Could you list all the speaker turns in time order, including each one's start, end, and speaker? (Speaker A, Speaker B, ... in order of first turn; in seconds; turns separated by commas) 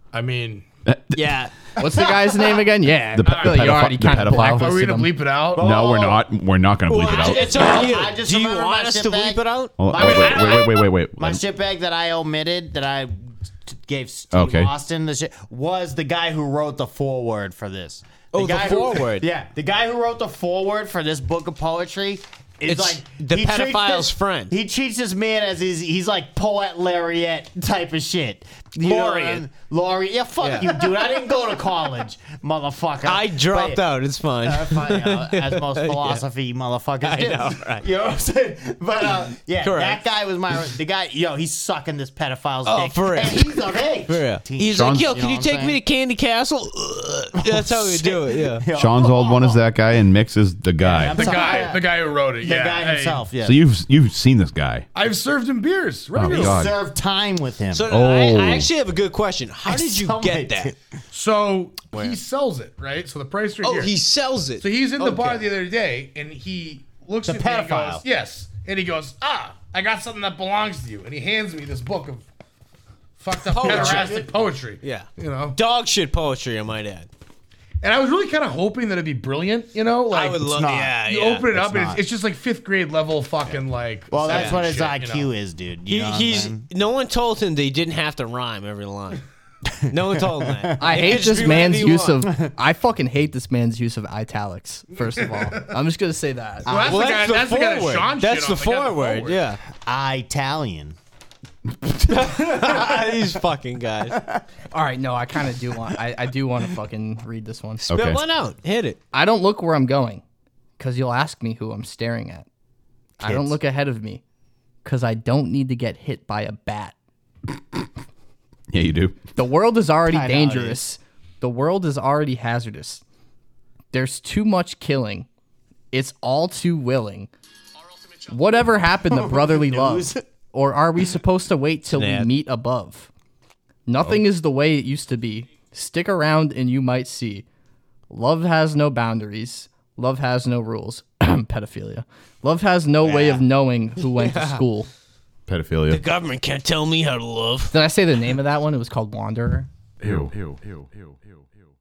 Speaker A: 0.1-0.7, Speaker B: 0.9-1.4, Speaker C: 1.2-1.5, Speaker D: 1.8-5.1, Speaker B: 3.1-4.8, Speaker A: 3.2-5.7, Speaker E: 5.5-6.2, Speaker B: 5.5-7.6, Speaker C: 6.9-9.8, Speaker E: 6.9-33.8, Speaker B: 9.8-11.4, Speaker A: 9.9-10.8, Speaker B: 14.3-14.7, Speaker C: 18.3-19.3, Speaker C: 22.7-24.6, Speaker C: 28.8-29.4, Speaker C: 30.4-31.0, Speaker C: 33.0-36.2, Speaker E: 34.4-45.8, Speaker C: 37.0-37.9, Speaker C: 39.6-40.0, Speaker C: 42.6-48.7, Speaker B: 44.7-45.1, Speaker E: 47.4-49.6, Speaker B: 48.8-51.5, Speaker E: 50.8-51.9, Speaker A: 51.0-53.3, Speaker E: 52.4-53.6, Speaker B: 53.4-54.9, Speaker A: 54.9-56.7, Speaker B: 56.1-56.7, Speaker E: 56.3-57.9, Speaker C: 57.7-60.7, Speaker B: 57.9-58.7, Speaker E: 59.7-60.8, Speaker A: 61.1-63.9, Speaker C: 61.9-62.2, Speaker C: 63.6-65.5, Speaker A: 64.6-72.2, Speaker E: 67.2-68.0, Speaker A: 73.2-75.6, Speaker C: 73.5-74.2, Speaker E: 73.6-74.3, Speaker C: 74.8-77.1, Speaker A: 77.8-80.4, Speaker C: 80.1-81.5, Speaker E: 80.4-81.0, Speaker A: 81.0-85.3, Speaker E: 81.5-82.0, Speaker E: 84.1-86.7, Speaker C: 84.3-84.7, Speaker C: 85.9-89.2, Speaker E: 89.7-91.0, Speaker C: 89.9-92.3, Speaker D: 90.8-96.7, Speaker E: 96.7-97.2, Speaker A: 96.7-99.4, Speaker C: 96.8-99.6, Speaker E: 99.8-101.0, Speaker C: 102.1-104.2, Speaker E: 102.6-103.2, Speaker E: 104.2-104.4, Speaker D: 104.7-107.8, Speaker C: 107.9-109.0, Speaker B: 107.9-108.2, Speaker D: 109.1-110.2, Speaker D: 110.8-112.5, Speaker D: 113.2-114.2, Speaker E: 113.2-113.6, Speaker D: 114.8-117.0, Speaker B: 118.7-119.2, Speaker D: 119.4-123.0, Speaker E: 120.1-120.8, Speaker D: 123.9-125.3, Speaker D: 125.9-127.3, Speaker D: 128.2-133.1, Speaker E: 129.1-130.2, Speaker C: 131.9-132.3, Speaker D: 133.9-137.4, Speaker D: 138.1-144.9, Speaker E: 143.0-143.4, Speaker C: 144.1-144.6, Speaker B: 145.5-146.0, Speaker C: 145.9-147.7, Speaker D: 147.7-149.7, Speaker B: 150.0-151.4